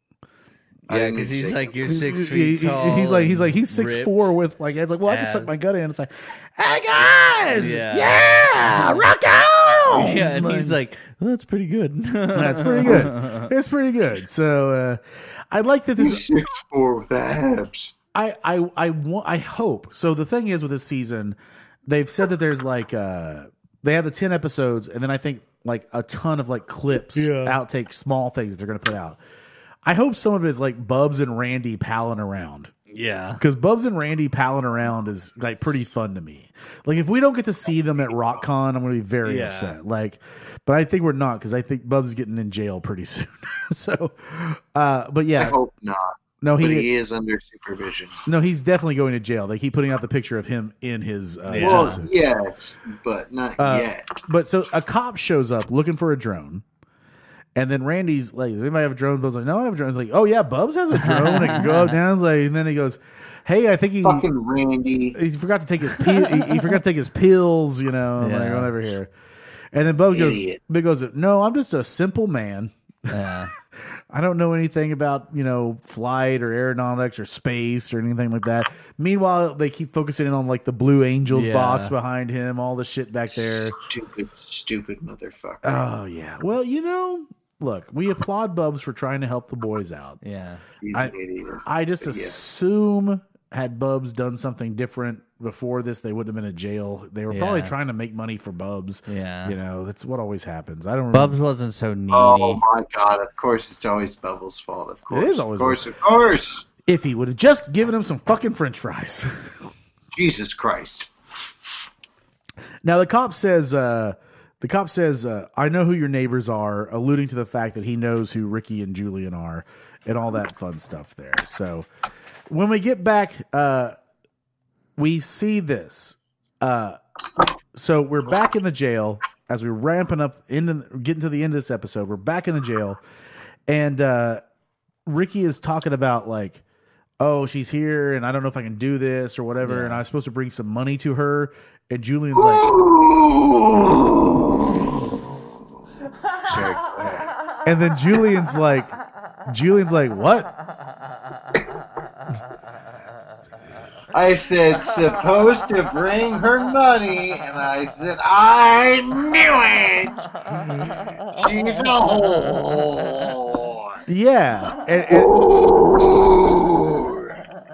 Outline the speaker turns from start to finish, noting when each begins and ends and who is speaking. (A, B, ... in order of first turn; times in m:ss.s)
0:00.9-0:02.0 A
0:00.9-0:04.3 B
0:01.9-0:10.8 C
0:05.1-0:05.5 B
0:07.6-0:09.1 B
0:09.9-0:13.5 B
0:12.3-0:16.3 C
0:16.0-0:17.9 A
0:18.1-0:29.2 C
0:27.1-0:27.6 B
0:29.8-0:32.7 C
0:32.9-0:33.4 B
0:33.4-0:45.6 C
0:39.2-0:39.8 B
0:45.4-0:48.2 A
0:46.4-0:46.9 C
0:48.3-0:52.1 C
0:51.5-0:52.0 B
0:51.6-0:54.2 A
0:53.6-0:56.6 C
0:57.6-1:04.3 C
1:00.9-1:02.0 B
1:04.0-1:05.2 A
1:05.2-1:09.1 C
1:08.2-1:08.7 B
1:09.7-1:13.1 C
1:10.1-1:10.6 A
1:13.1-1:13.5 B
1:14.1-1:23.8 C
1:21.3-1:21.9 B
1:23.3-1:25.8 A
1:25.6-1:30.2 C
1:30.2-1:30.6 B
1:30.8-1:32.4 A
1:31.6-1:41.4 C
1:37.3-1:37.7 B
1:39.1-1:39.6 B
1:41.1-1:42.6 B
1:42.1-1:46.7 A
1:45.1-1:45.9 C
1:46.8-1:49.5 C
1:50.1-1:51.1 A
1:52.8-2:01.9 C
2:02.5-2:03.9 C
2:05.0-2:07.0 C
2:07.7-2:13.0 C
2:13.7-2:14.4 C
2:15.1-2:16.6 C
2:17.2-2:22.7 C
2:19.6-2:20.0 B
2:22.4-2:24.9 A
2:26.4-2:27.3 A
2:27.6-2:28.9 C
2:29.5-2:30.5 C
2:34.1-2:40.3 A
2:41.3-2:44.0 A
2:44.1-2:45.3 C
2:45.1-2:47.4 A